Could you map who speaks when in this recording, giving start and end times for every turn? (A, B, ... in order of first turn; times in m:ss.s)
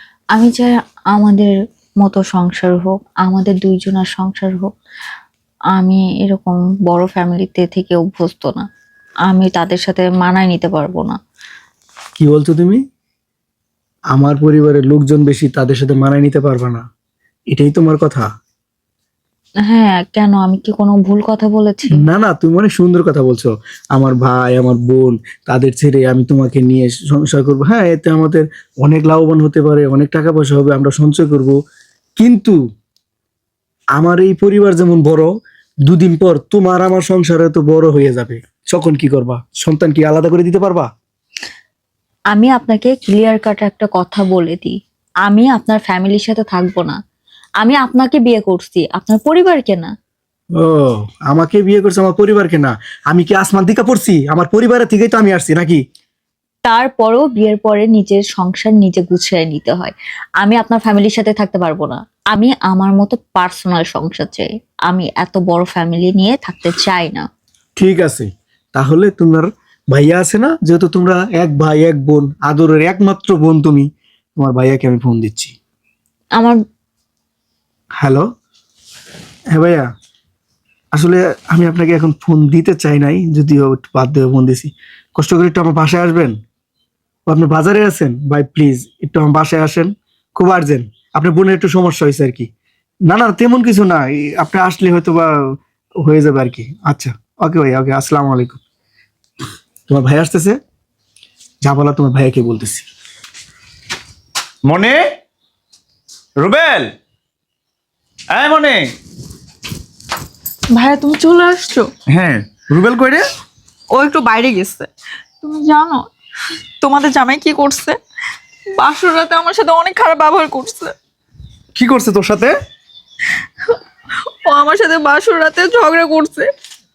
0:00.3-0:04.7 A
0:05.8-0:08.6 A
0:09.3-0:11.2 A
0:12.2-0:12.8 B
0:14.1-0:16.8 B
0:17.5-0:18.3 B
0:19.6-0:22.0 A
0:21.9-0:31.5 B
0:32.2-0:32.6 B
0:34.0-0:35.3 B
0:35.8-0:40.9 B
0:42.3-0:47.0 A
0:47.6-0:49.9 A
0:50.6-0:55.8 B
0:56.6-1:07.3 A
1:07.8-1:15.5 B
1:18.0-1:18.2 B
1:19.5-1:19.8 B
1:20.9-1:26.3 B
1:27.3-1:32.5 B
1:33.1-1:35.3 B
1:36.0-1:38.6 B
1:39.9-1:40.6 B
1:41.6-1:42.8 B
1:44.6-1:45.0 C
1:46.4-1:46.9 C
1:48.3-1:48.9 C
1:50.8-1:51.8 D
1:52.1-1:53.2 C
1:53.9-1:54.8 D
1:55.4-1:56.0 D
1:56.8-1:57.9 D
1:58.8-2:00.9 D
2:01.8-2:02.5 C
2:04.5-2:06.4 D